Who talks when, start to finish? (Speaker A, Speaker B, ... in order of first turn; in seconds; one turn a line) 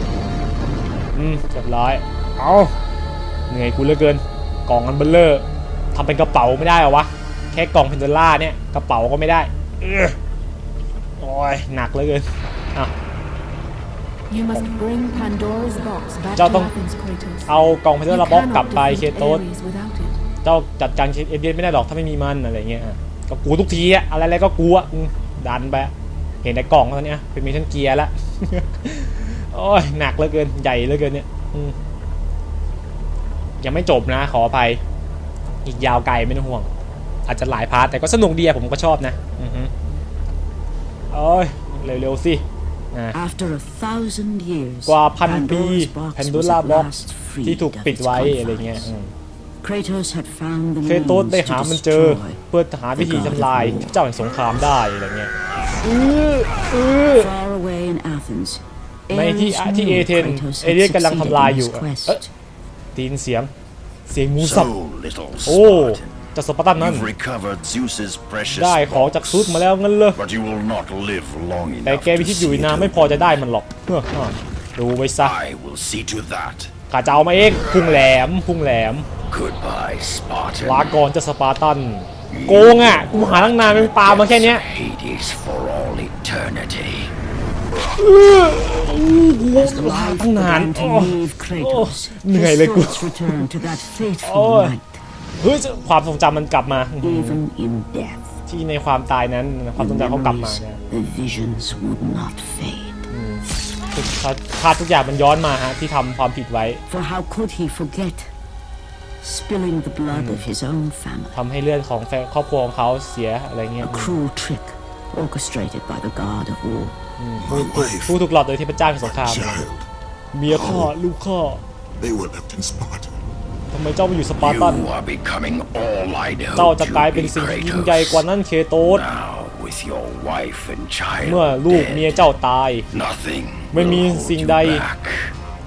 Speaker A: 1.1-2.8
Speaker A: 3.5-10.2
Speaker A: 11.2-12.9
Speaker B: 14.3-17.5
Speaker A: 16.4-16.7
Speaker A: 17.5-19.4
Speaker B: 18.1-20.1
Speaker A: 20.4-25.9
Speaker A: 26.4-31.8
Speaker A: 33.6-34.8
Speaker A: 35.6-36.7
Speaker A: 37.3-39.7
Speaker A: 41.1-43.2
Speaker C: 43.1-48.9
Speaker A: 44.9-46.9
Speaker A: 47.4-49.1
Speaker C: 49.6-52.4
Speaker A: 50.8-57.3
Speaker C: 53.0-54.0
Speaker C: 57.1-62.3
Speaker A: 59.1-62.2
Speaker A: 63.0-63.5
Speaker A: 64.1-64.7
Speaker D: 64.4-73.4
Speaker A: 65.5-67.1
Speaker A: 68.5-70.2
Speaker A: 71.8-75.4
Speaker D: 75.2-76.7
Speaker A: 76.9-79.1
Speaker D: 79.3-81.0
Speaker A: 80.6-84.6
Speaker D: 82.3-87.1
Speaker A: 88.0-93.5
Speaker C: 89.5-95.0
Speaker A: 94.2-94.8
Speaker A: 95.4-97.4
Speaker C: 97.0-98.4
Speaker A: 98.5-100.8
Speaker C: 99.8-103.1
Speaker A: 103.1-106.8
Speaker C: 106.9-108.3
Speaker C: 109.2-111.4
Speaker A: 110.1-110.4
Speaker A: 111.3-114.2
Speaker C: 113.8-117.0
Speaker A: 117.2-119.6
Speaker E: 117.4-118.2
Speaker E: 119.0-119.9
Speaker A: 120.3-121.6
Speaker E: 120.5-120.9
Speaker E: 122.0-123.2
Speaker A: 123.7-124.9
Speaker D: 124.4-128.2
Speaker A: 126.5-129.0
Speaker D: 128.9-132.3
Speaker A: 131.2-132.9
Speaker D: 132.9-135.3
Speaker A: 133.7-134.8